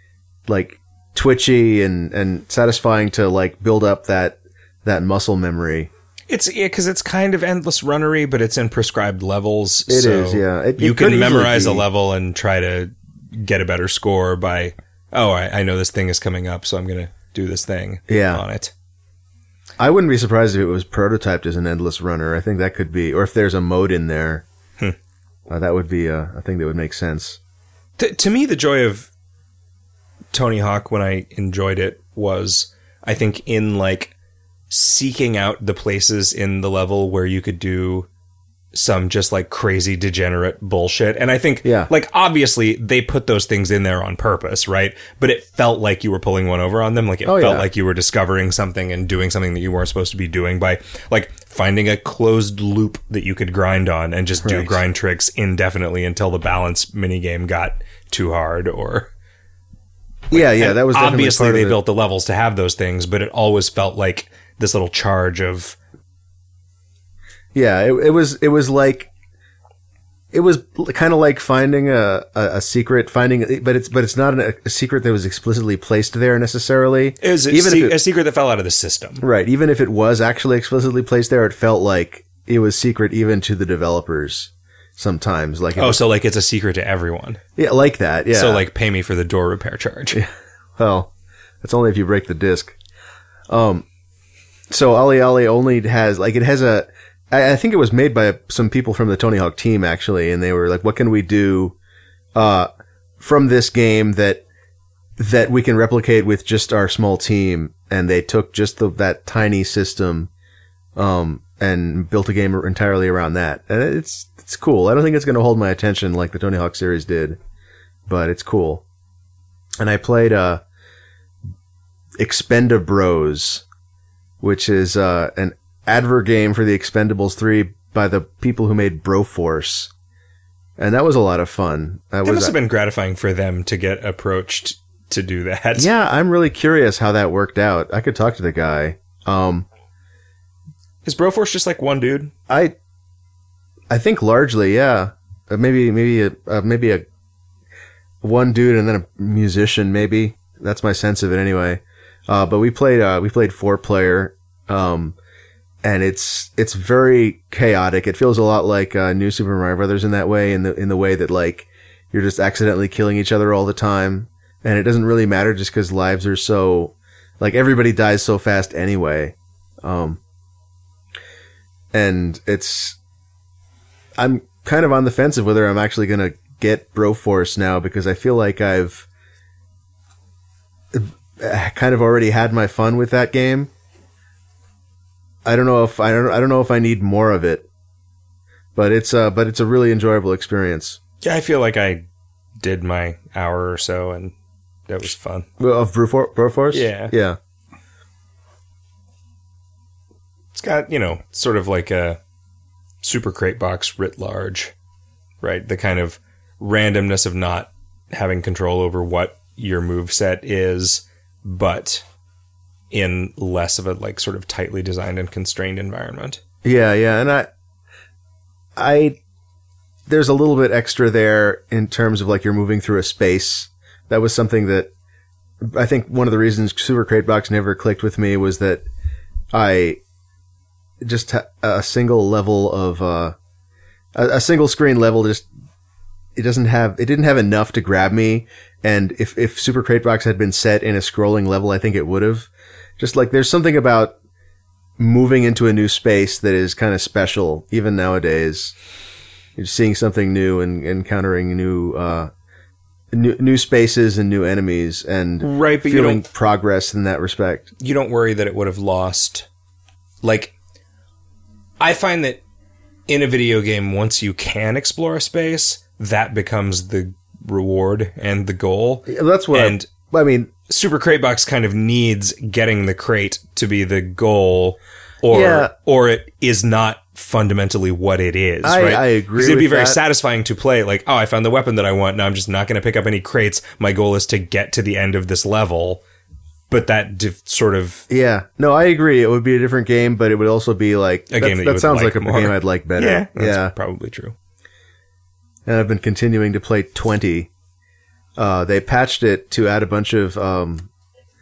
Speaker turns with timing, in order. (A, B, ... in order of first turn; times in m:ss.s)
0:00.5-0:05.9 A
0:06.3-0:18.7 B
0:09.9-0:11.8 A
0:18.1-0:18.4 A
0:19.8-0:24.4 A
0:25.5-0:27.4 A
0:28.0-0:29.1 B
0:30.3-0:34.1 B
0:34.7-0:38.1 B
0:38.7-0:59.1 B
0:41.6-0:41.9 A
0:47.2-0:47.7 A
0:54.4-0:54.8 A
1:00.3-1:01.8 A
1:00.3-1:05.8 B
1:07.5-1:09.1 A
1:10.3-1:18.0 A
1:17.2-1:19.2 B
1:19.2-1:26.0 A
1:25.8-1:27.4 B
1:27.6-1:28.6 A
1:28.3-1:30.2 B
1:30.1-1:31.1 A
1:31.6-1:32.8 A
1:33.5-1:33.8 A
1:34.7-1:41.8 A
1:42.4-1:42.7 A
1:43.2-1:44.4 A
1:45.2-1:50.3 A
1:51.0-1:57.4 A
1:58.1-1:58.8 A
1:59.8-2:00.6 A
2:02.2-2:03.6 A
2:04.4-2:09.9 A
2:10.8-2:12.5 A
2:12.2-2:15.9 B
2:15.8-2:19.7 A
2:21.0-2:22.3 B
2:22.5-2:22.8 A
2:23.9-2:27.0 A
2:28.2-2:35.2 A
2:35.8-2:50.2 A
2:51.9-2:53.0 A
2:54.2-2:59.1 A
3:00.9-3:03.7 A
3:05.4-3:07.7 A
3:08.8-3:11.0 A
3:11.2-3:12.0 B
3:12.6-3:14.3 B
3:14.9-3:15.5 B
3:15.6-3:17.4 A
3:16.7-3:17.1 B
3:20.5-3:22.2 B
3:23.0-3:24.7 B
3:25.4-3:32.0 B
3:32.9-3:36.4 B
3:36.6-3:37.5 A
3:38.8-3:39.2 A
3:40.1-3:44.9 A
3:45.6-3:48.9 A
3:49.5-3:50.0 A
3:51.0-3:53.4 A
3:54.2-3:55.5 A
3:56.4-4:04.2 A
4:05.0-4:08.7 A
4:09.6-4:12.3 A
4:13.1-4:17.7 A
4:15.4-4:16.2 B
4:17.8-4:19.5 B
4:20.2-4:20.5 B
4:21.8-4:22.4 B
4:23.1-4:29.9 B
4:29.1-4:30.5 A
4:30.7-4:46.0 B
4:35.3-4:35.7 A
4:38.6-4:40.0 A
4:46.7-4:48.0 B
4:48.1-4:53.7 A
4:51.3-4:54.4 B
4:55.7-4:57.5 A
4:58.4-5:00.9 A